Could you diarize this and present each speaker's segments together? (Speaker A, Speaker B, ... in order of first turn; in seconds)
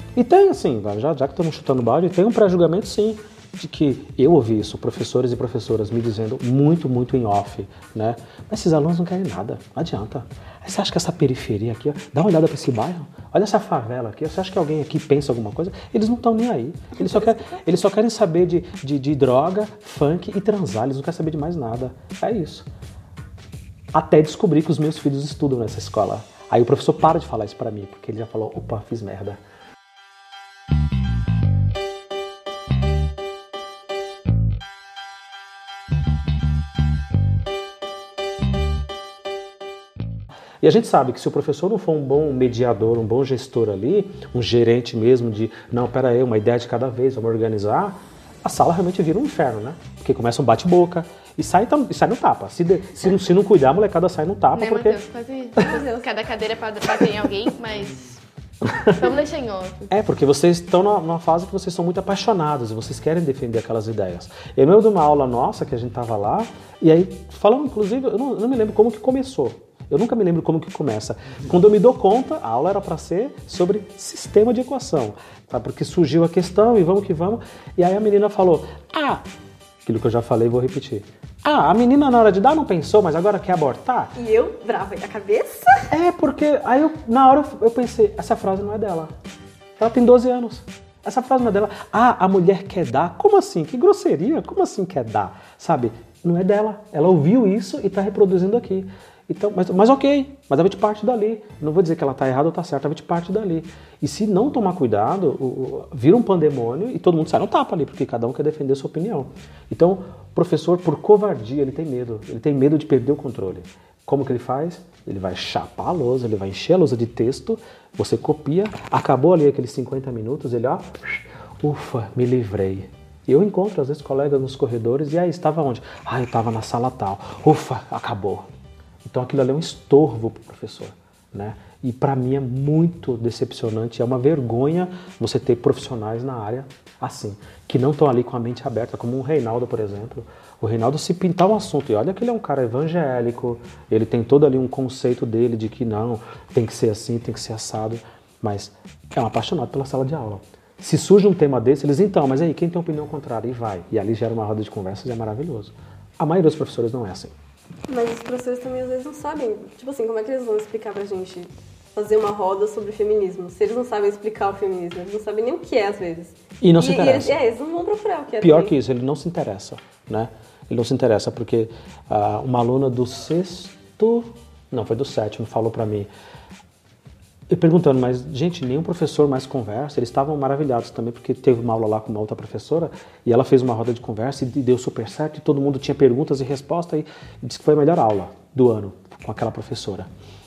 Speaker A: 0.1-22.6, 23.9-29.4, 40.6-55.0, 58.6-59.1, 59.9-79.2, 79.8-84.1, 85.9-89.1, 89.8-128.4, 129.0-157.3, 166.6-167.3, 168.4-176.1, 177.5-190.1
Speaker B: 54.5-58.2, 58.9-59.9
Speaker C: 55.6-56.0, 84.2-85.9, 157.9-168.7